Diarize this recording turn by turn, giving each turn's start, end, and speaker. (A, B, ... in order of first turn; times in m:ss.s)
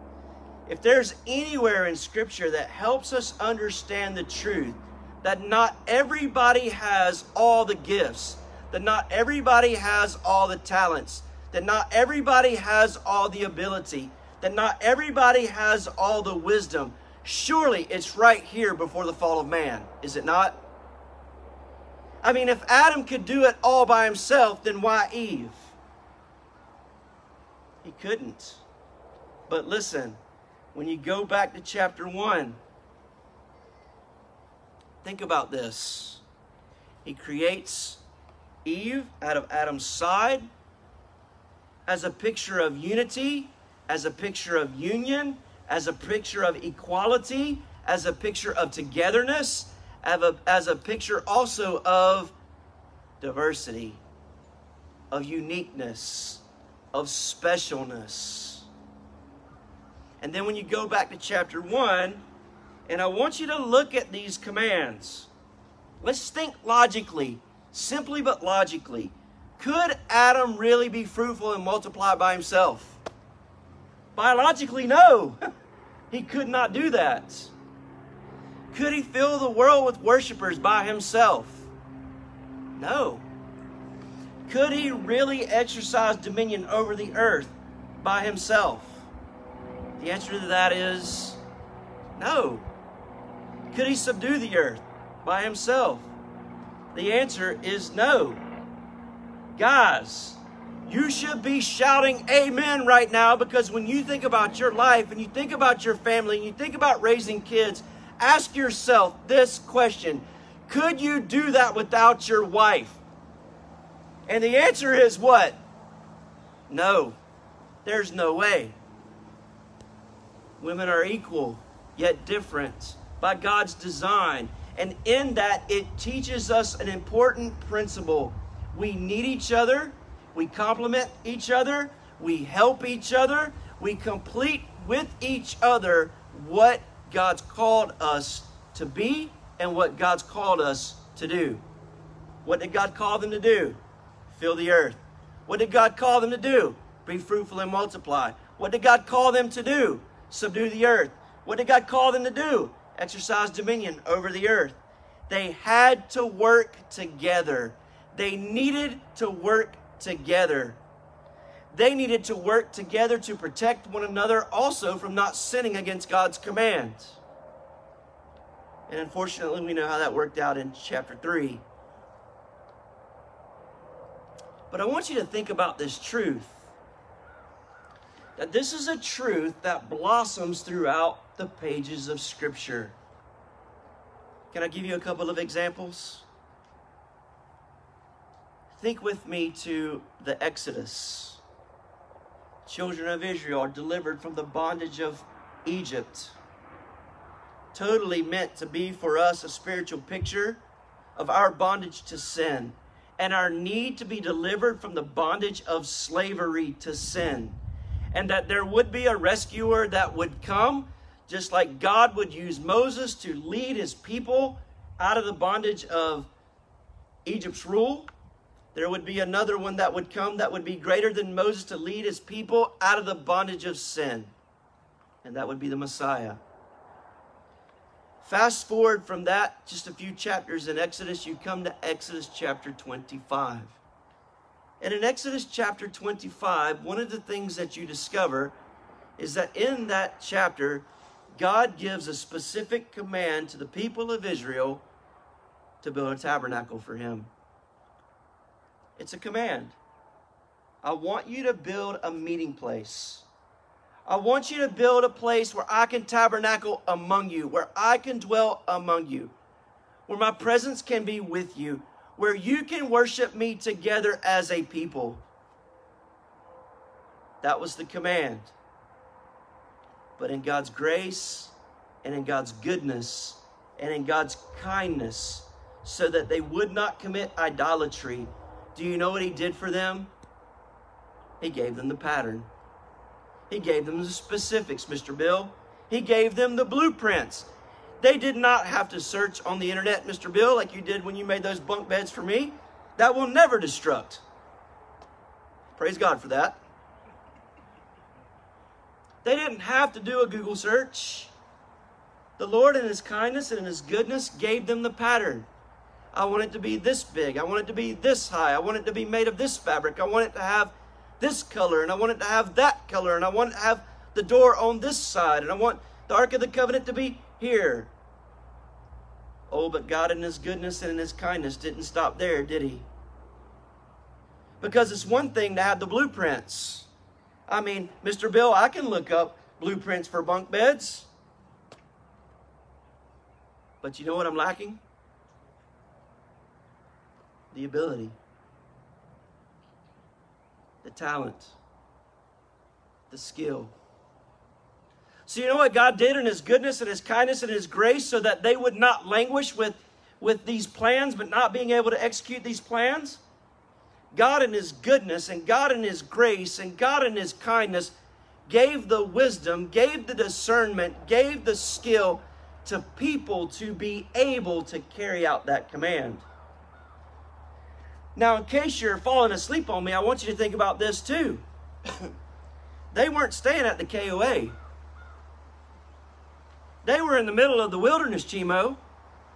0:00.7-0:20.6 A
0:22.2-0:25.8 A
0:27.8-0:28.6 A
0:29.5-0:30.2 A
0:30.7-0:32.6 A
0:35.0-0:36.2 A
0:37.0-0:38.0 A
0:38.6-0:40.5 A
0:41.9-0:52.4 A
0:53.2-0:54.0 A
0:55.1-0:58.7 A
1:00.2-1:02.2 A
1:02.9-1:05.3 A
1:06.0-1:13.0 A
1:14.2-1:15.4 A
1:16.1-1:17.5 A
1:18.7-1:21.7 A
1:22.7-1:23.3 A
1:24.5-1:29.1 A
1:30.0-1:31.4 A
1:32.2-1:32.6 A
1:33.7-1:36.1 A
1:36.9-1:38.4 A
1:39.6-1:53.0 A
1:54.3-1:55.6 A
1:56.7-1:57.2 A
1:57.8-1:58.8 A
2:00.6-2:21.6 A
2:22.4-2:40.8 A
2:41.7-2:47.2 A
2:48.9-2:51.6 A
2:54.7-2:56.7 A
2:58.4-3:03.0 A
3:04.5-3:06.3 A
3:08.7-3:11.4 A
3:12.7-3:16.4 A
3:17.7-3:20.6 A
3:21.2-3:27.6 A
3:28.1-3:36.3 A
3:37.2-3:38.1 A
3:38.7-3:44.3 A
3:45.2-3:46.4 A
3:48.2-3:53.8 A
3:54.8-3:58.6 A
3:59.2-4:04.8 A
4:05.8-4:07.3 A
4:09.0-4:09.8 A
4:10.8-4:13.3 A
4:14.1-4:19.3 A
4:20.1-4:25.2 A
4:27.4-4:28.5 A
4:30.2-4:40.1 A
4:41.4-4:42.5 A
4:43.5-4:54.2 A
4:55.8-4:56.6 A
4:59.2-5:01.3 A
5:02.4-5:05.5 A
5:06.1-5:17.9 A
5:19.5-5:22.9 A
5:24.6-5:26.9 A
5:27.5-5:31.1 A
5:33.8-5:34.8 A
5:37.5-5:38.2 A
5:40.8-5:41.6 A
5:43.1-5:43.7 A
5:45.3-5:53.2 A
5:54.1-5:58.0 A
5:58.5-6:06.3 A
6:08.2-6:11.4 A
6:12.9-6:14.6 A
6:16.8-6:18.8 A